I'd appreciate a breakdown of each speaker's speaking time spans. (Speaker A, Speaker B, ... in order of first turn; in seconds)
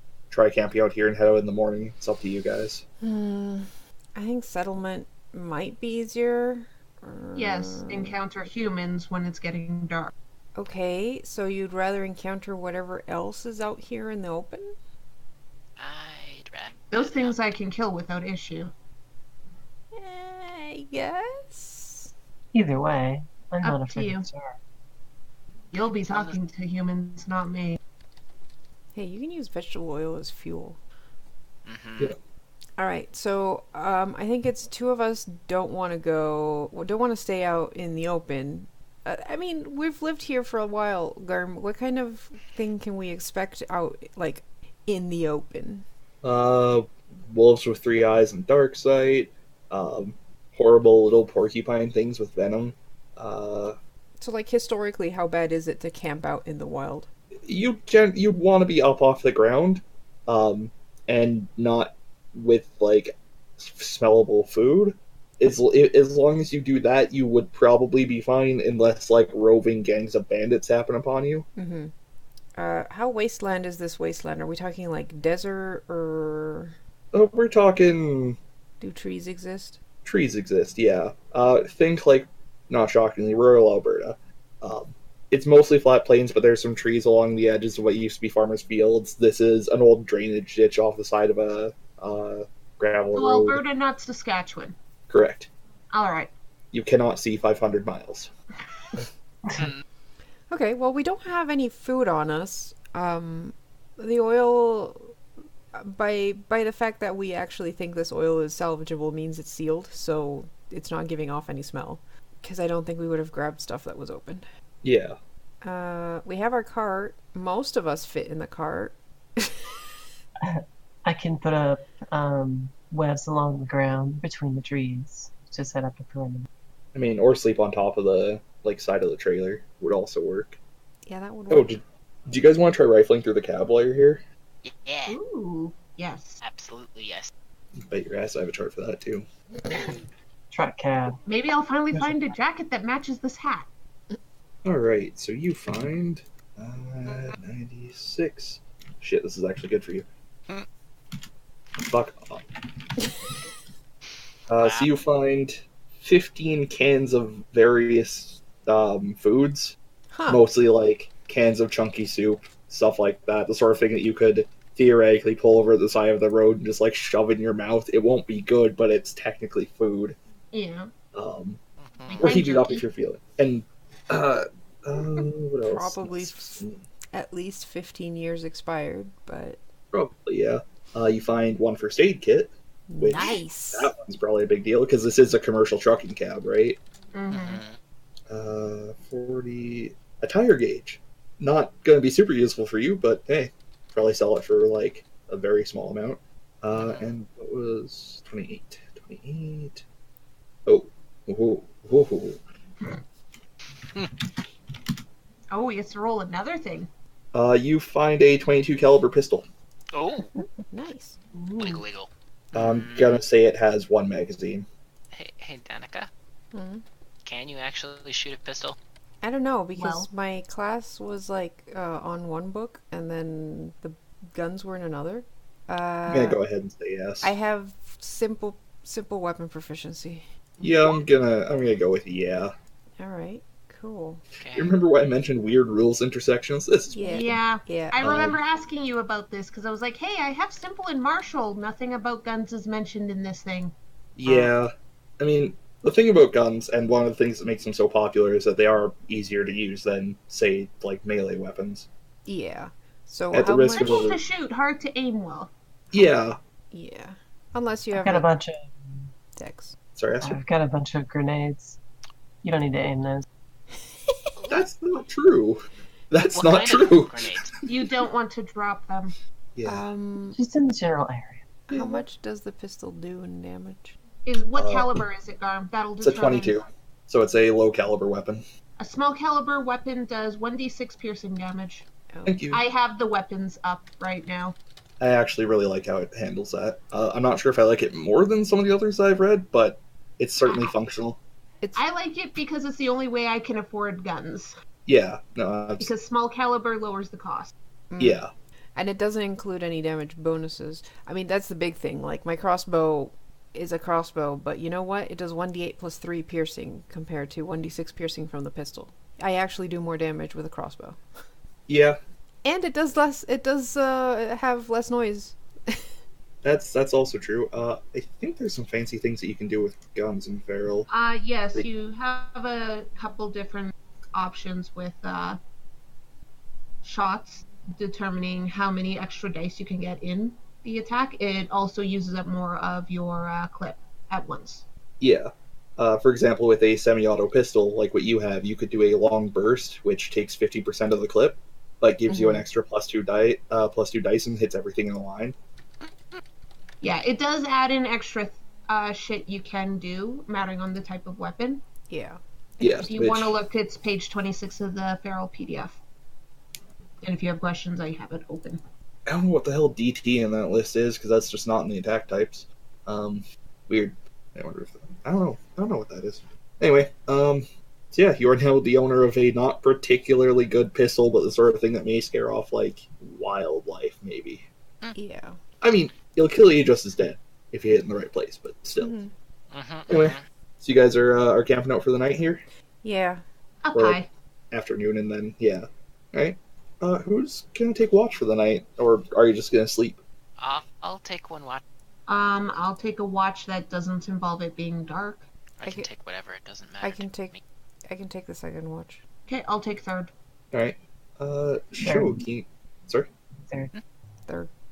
Speaker A: 0.3-2.8, 46.2-53.8, 57.4-71.5, 77.1-78.4, 80.0-93.6, 95.1-95.5, 96.7-98.3, 114.8-115.2, 126.9-130.6, 131.5-134.2, 137.8-139.3, 144.6-150.1, 151.8-152.4, 154.5-159.8, 160.3-170.2, 171.1-171.6, 172.1-176.8, 179.9-186.8, 188.3-199.8, 200.7-202.4, 207.3-209.4, 212.5-214.7, 226.1-227.3, 230.6-232.5, 234.5-237.4, 238.0-238.4, 244.2-251.9, 253.3-254.2, 255.9-256.4, 259.9-260.4, 264.5-267.2, 269.6-269.9, 271.7-272.0, 274.5-274.9, 276.0-278.4, 282.2-282.6, 285.0-291.2, 294.9-295.9, 298.0-298.3, 311.7-312.0, 316.4-320.9, 335.0-345.4, 352.6-353.4, 359.1-374.4, 375.6-378.9, 379.9-382.4, 383.7-390.0, 400.5-403.1
Speaker B: 3.0-8.2, 10.6-14.7, 19.9-22.1, 28.9-30.8, 32.8-45.8, 54.2-57.1, 71.5-71.9, 72.6-76.7, 78.8-79.8, 100.5-105.2, 105.7-114.4, 115.6-119.6, 131.1-131.7, 160.1-160.4, 175.7-179.6, 182.9-183.9, 210.7-211.2, 216.5-216.8, 219.2-226.4, 227.2-230.3, 233.0-234.2, 236.9-238.0, 244.2-244.5, 252.2-254.1, 256.7-258.3, 259.4-259.8, 269.6-270.4, 271.7-274.0, 282.1-282.4, 297.9-298.2, 298.7-311.0, 312.4-315.8, 342.1-342.4, 351.9-352.9, 374.9-375.4, 378.8-379.1, 382.8-383.2, 395.6-395.9, 396.8-397.3, 397.9-399.0
Speaker C: 7.3-10.1, 16.9-18.7, 23.6-24.2, 25.7-27.8, 93.1-94.8, 95.9-96.3, 135.1-136.4, 141.2-143.7, 170.5-170.9, 172.1-172.8, 183.1-183.4, 187.1-187.6, 205.5-206.9, 211.3-211.8, 219.7-220.1, 237.1-243.7, 253.7-255.5, 267.6-269.1, 274.2-276.6, 278.8-281.8, 282.5-284.6, 290.4-290.7, 291.7-294.5, 295.8-297.5, 320.9-325.4, 326.8-334.6, 346.8-351.6, 352.8-355.8, 357.0-358.6, 383.6-384.1, 392.1-395.2, 399.3-400.1
Speaker D: 15.8-17.4, 26.1-26.4, 31.6-32.1, 99.5-99.8, 134.6-135.2, 136.4-137.3, 154.6-154.9, 171.8-172.3, 187.3-187.8, 196.8-197.1, 209.9-210.3, 211.6-213.2, 215.1-216.1, 217.2-218.8, 234.4-234.8, 266.3-267.5, 345.8-346.2, 379.5-380.2, 390.4-391.6, 395.6-397.4
Speaker E: 22.5-24.6, 99.5-99.7, 120.4-126.5, 140.5-141.2, 257.9-259.1, 260.2-261.8, 262.4-263.2, 270.3-271.4, 401.8-402.2